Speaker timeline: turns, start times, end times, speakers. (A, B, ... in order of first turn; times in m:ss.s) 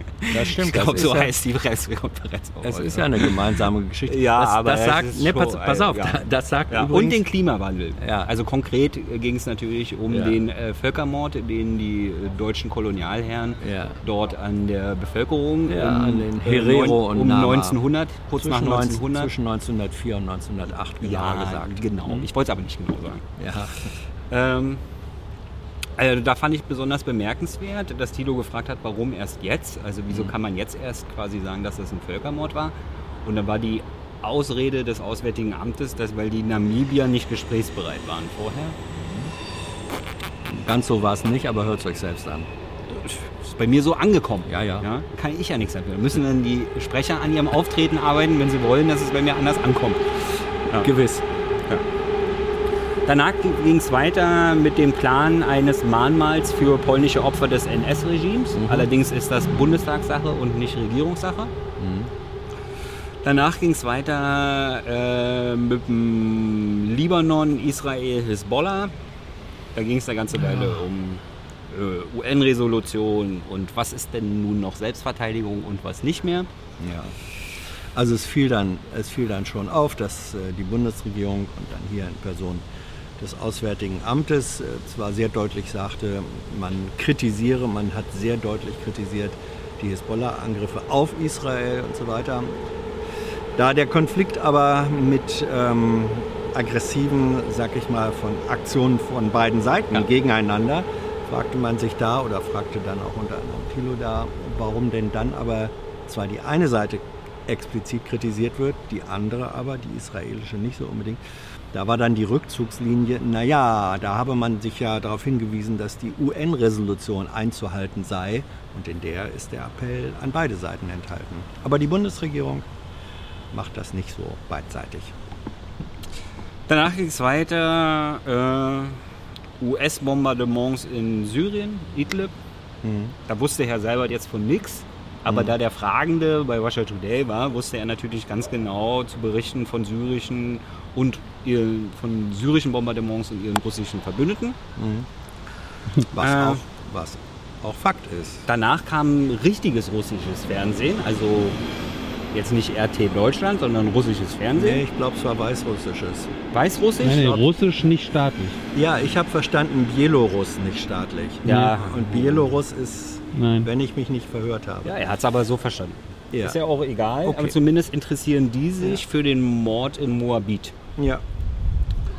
0:00.2-0:03.4 A
0:00.3-0:01.4 B
0:02.6-0:07.2 B
0:04.1-0:19.3 A
0:08.0-0:08.3 B
0:10.1-0:10.4 B
0:13.6-0:14.0 B
0:15.7-0:17.8 B
0:18.4-0:22.3 B
0:21.0-0:23.2 A
0:23.4-0:23.9 B
0:24.3-0:24.8 A
0:26.0-0:38.8 A
0:38.9-0:39.3 B
0:40.5-0:42.5 B
0:42.9-0:50.9 A
0:44.5-0:44.9 B
0:50.8-0:51.3 B
0:53.1-1:01.5 A
0:58.6-0:58.9 B
1:01.8-1:02.1 B
1:03.2-1:08.9 A
1:09.8-1:16.5 A
1:16.8-1:17.2 B
1:17.9-1:22.6 B
1:23.2-1:32.6 B
1:33.6-1:51.2 B
1:51.7-2:02.7 B
2:03.5-2:05.1 B
2:06.7-2:09.0 A
2:09.6-2:12.3 A
2:12.8-2:13.2 B
2:13.3-2:24.6 A
2:15.3-2:15.5 B
2:24.8-2:25.1 B
2:26.1-2:28.5 B
2:26.2-2:26.6 A
2:28.5-2:31.6 A
2:32.3-2:34.8 A
2:34.5-2:36.3 B
2:36.5-2:37.4 A
2:37.0-2:38.6 C
2:38.7-2:45.0 B
2:41.4-2:41.9 A
2:41.4-2:42.0 C
2:43.3-2:43.7 C
2:44.8-2:50.8 A
2:46.3-2:46.6 B
2:47.2-2:47.6 B
2:51.0-2:51.2 B